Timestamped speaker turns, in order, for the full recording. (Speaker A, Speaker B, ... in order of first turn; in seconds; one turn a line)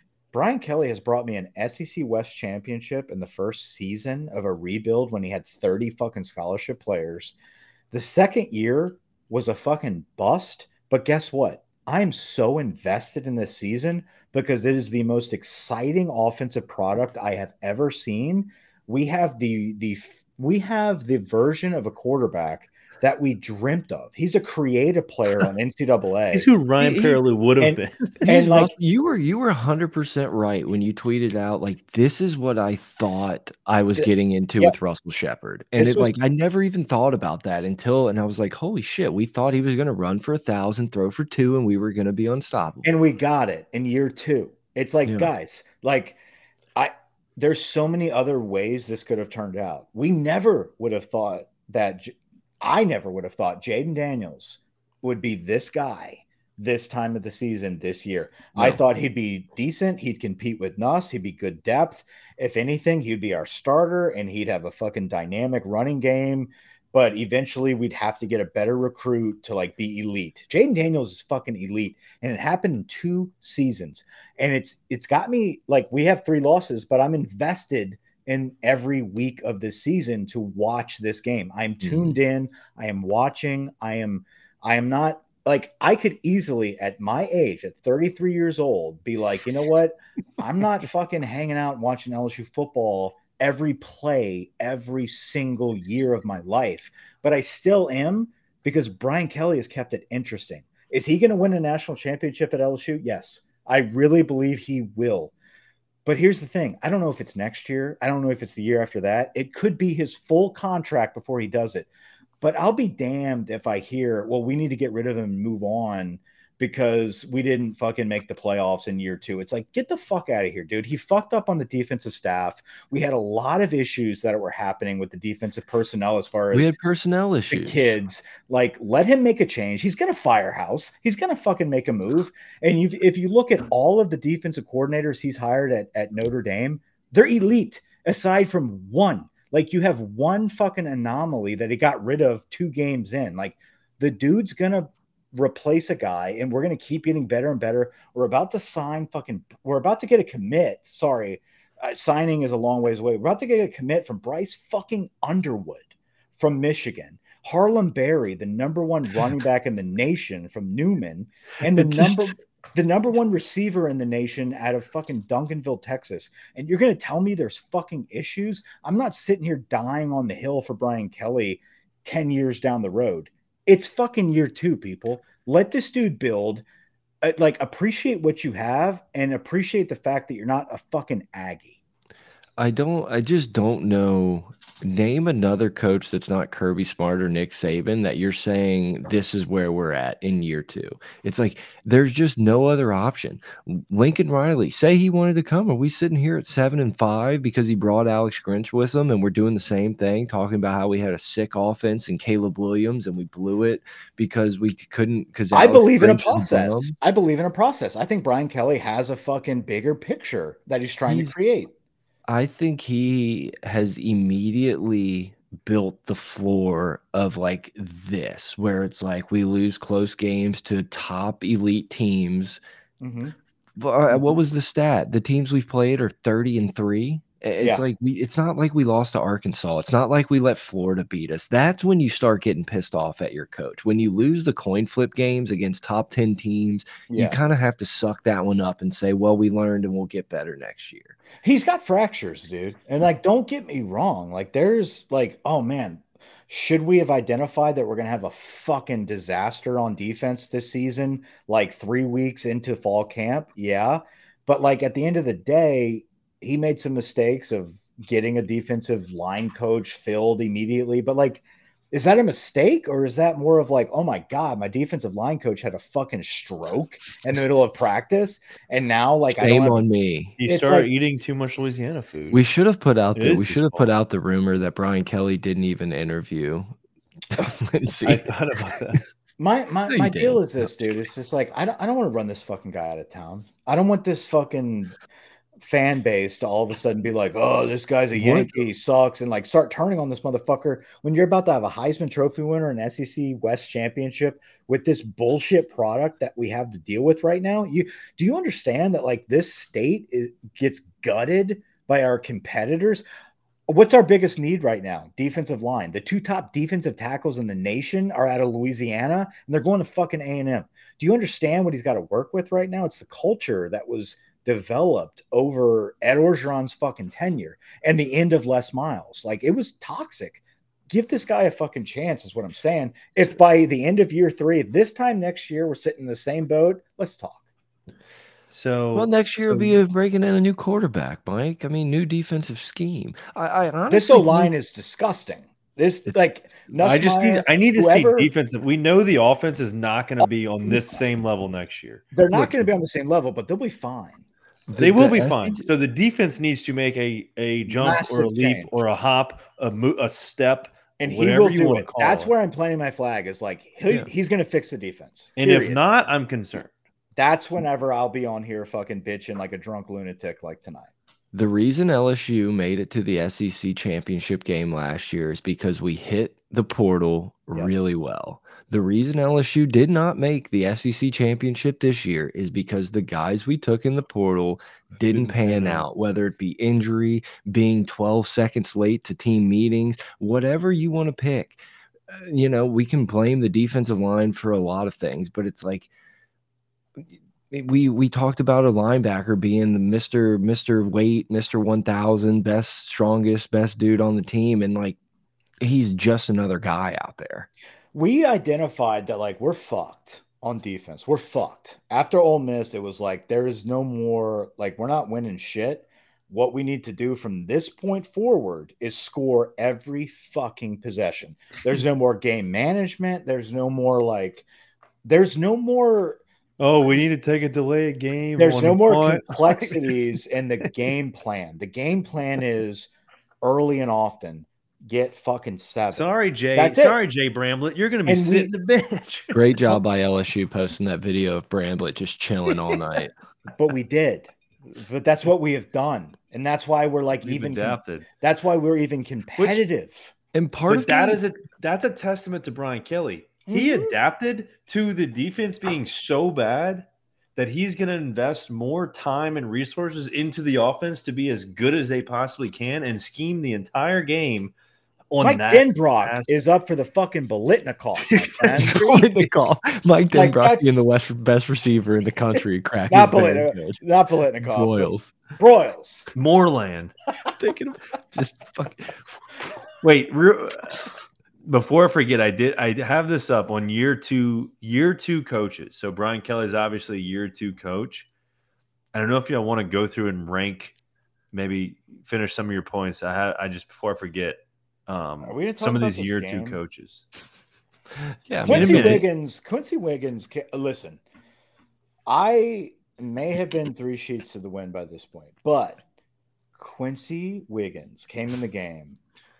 Speaker A: 0.3-7.3
Speaker A: 7.9-26.5
Speaker B: 26.3-28.3
Speaker C: 26.8-27.2
Speaker A: 27.6-28.7
Speaker C: 28.2-42.9
Speaker A: 35.8-36.1
Speaker A: 42.8-46.2
Speaker C: 45.0-45.3
Speaker A: 46.8-105.3
Speaker C: 58.5-58.8
Speaker C: 81.8-82.2
Speaker A: 106.0-111.9
Speaker A: 112.4-126.7
Speaker C: 126.5-127.9
Speaker A: 127.5-176.6
Speaker C: 161.8-162.3
Speaker A: 177.2-181.8
Speaker C: 182.6-206.9
Speaker A: 205.5-211.7
Speaker C: 211.1-211.3
Speaker C: 212.3-222.6
Speaker A: 223.0-223.3
Speaker C: 223.8-241.1
Speaker A: 227.6-227.8
Speaker A: 237.1-237.4
Speaker A: 241.4-269.8
Speaker C: 269.4-270.4
Speaker B: 270.4-272.4
Speaker A: 270.4-270.9
Speaker C: 272.3-276.7
Speaker B: 273.1-273.9
Speaker C: 277.3-278.7
Speaker B: 278.0-279.0
Speaker A: 279.4-284.9
Speaker C: 279.9-280.6
Speaker A: 285.6-303.0
Speaker B: 288.1-288.6
Speaker A: 303.7-327.4
Speaker B: 328.5-329.7
Speaker C: 328.9-334.5
Speaker A: 333.9-338.3
Speaker B: 336.8-342.0
Speaker A: 340.2-340.8
Speaker A: 342.1-344.2
Speaker C: 342.3-342.7
Speaker B: 344.7-352.3
Speaker C: 344.7-345.7
Speaker A: 347.7-348.7
Speaker A: 351.0-355.8
Speaker B: 355.4-356.7
Speaker A: 357.1-360.9
Speaker C: 361.3-385.9
Speaker B: 375.1-375.9
Speaker C: 387.0-395.0
Speaker C: 395.6-397.5
Speaker A: 397.9-414.4
Speaker A: 415.0-416.2
Speaker B: 416.6-419.9
Speaker A: 418.4-422.9
Speaker A: 423.4-427.0
Speaker B: 425.9-429.5
Speaker A: 428.1-428.5
Speaker C: 429.3-433.1
Speaker A: 433.6-440.1
Speaker B: 437.2-438.1
Speaker B: 439.4-439.6
Speaker C: 440.3-441.2
Speaker B: 440.7-454.5
Speaker A: 443.5-443.9
Speaker B: 455.1-456.3
Speaker A: 455.2-459.3
Speaker B: 458.0-458.8
Speaker C: 458.5-463.8
Speaker A: 460.1-460.8
Speaker A: 462.9-466.1
Speaker C: 464.4-465.1
Speaker B: 466.1-466.9
Speaker C: 467.4-469.5
Speaker B: 469.8-470.9
Speaker B: 471.4-478.1
Speaker B: 478.9-480.7
Speaker B: 481.3-487.0
Speaker A: 485.2-486.6
Speaker C: 488.0-489.1
Speaker A: 488.4-491.0
Speaker B: 488.5-489.0
Speaker A: 492.1-495.8
Speaker A: 496.6-499.0